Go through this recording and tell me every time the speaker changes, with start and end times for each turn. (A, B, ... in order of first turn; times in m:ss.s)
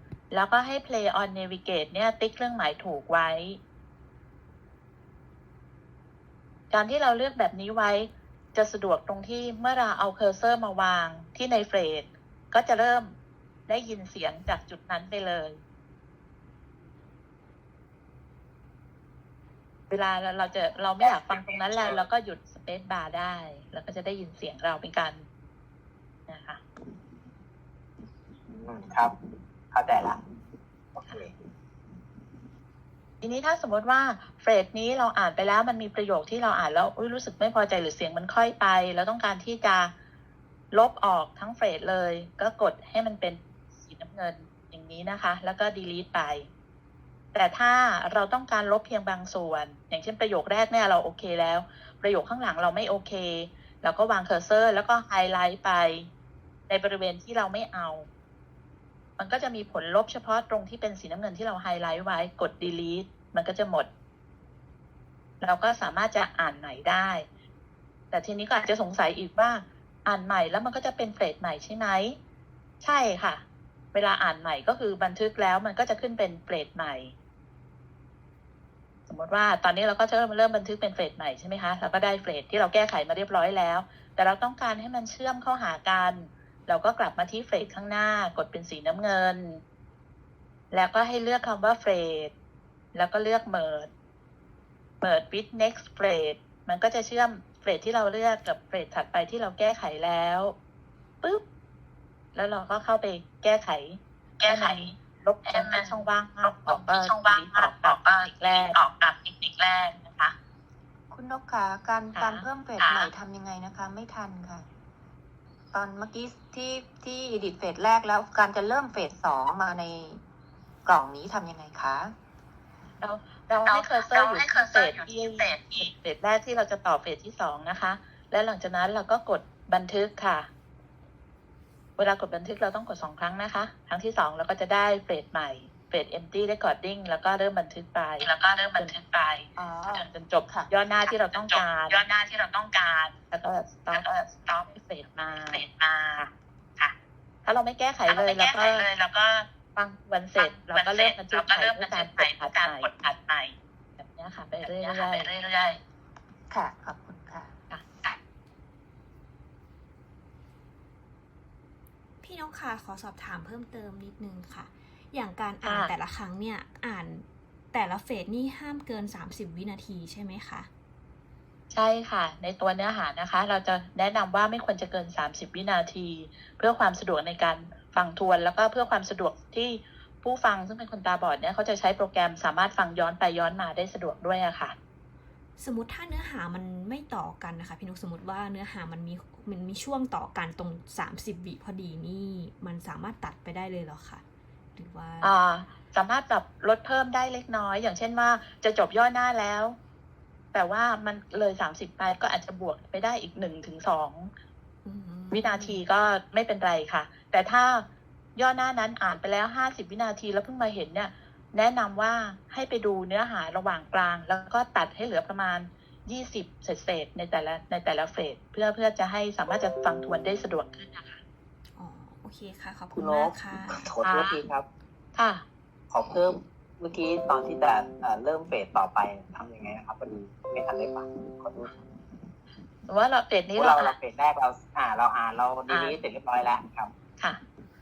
0:00.3-0:03.6 A
0:06.7-0:13.1 A
0:13.7-0:15.6 A
0:19.9-0:25.2 A
0:21.1-0:22.0 B
0:26.3-0:26.6 A
0:28.5-0:29.2 B
0:29.7-0:30.2 B
0:31.0-0:31.4 B
0:33.2-0:39.9 A
0:40.7-0:46.5 A
0:47.3-0:56.1 A
0:56.7-0:58.1 A
0:59.2-1:03.9 A
1:05.4-1:07.3 A
1:08.1-1:12.2 A
1:12.8-1:17.1 A
1:19.1-1:29.6 A
1:30.7-1:32.3 A
1:32.9-1:33.9 A
1:35.0-1:40.6 A
1:42.4-1:48.8 A
1:44.4-1:50.4 C
1:51.1-1:54.7 D
1:52.2-1:53.1 C
1:55.7-2:00.2 D
2:00.9-2:02.1 D
2:03.0-2:10.5 A
2:03.6-2:05.9 C
2:12.0-2:19.0 A
2:18.2-2:20.1 C
2:19.6-2:20.7 D
2:20.1-2:22.0 A
2:21.0-2:26.9 C
2:23.3-2:24.1 A
2:24.8-2:25.6 A
2:27.5-2:28.9 A
2:28.0-2:29.6 C
2:29.8-2:32.9 A
2:30.4-2:33.6 C
2:34.0-2:35.3 A
2:34.6-2:35.8 C
2:36.5-2:37.5 D
2:42.2-2:50.7 E
2:45.6-2:45.9 A
2:51.7-3:04.8 A
3:05.6-3:14.2 E
3:14.8-3:15.4 E
3:15.2-3:19.8 A
3:20.5-3:24.3 A
3:24.8-3:25.8 E
3:25.3-3:41.2 A
3:41.8-3:43.9 E
3:43.0-3:44.7 B
3:44.0-3:44.4 A
3:45.2-3:45.4 A
3:45.9-3:51.8 B
3:52.9-3:54.0 A
3:53.5-3:56.9 B
3:55.7-3:56.0 A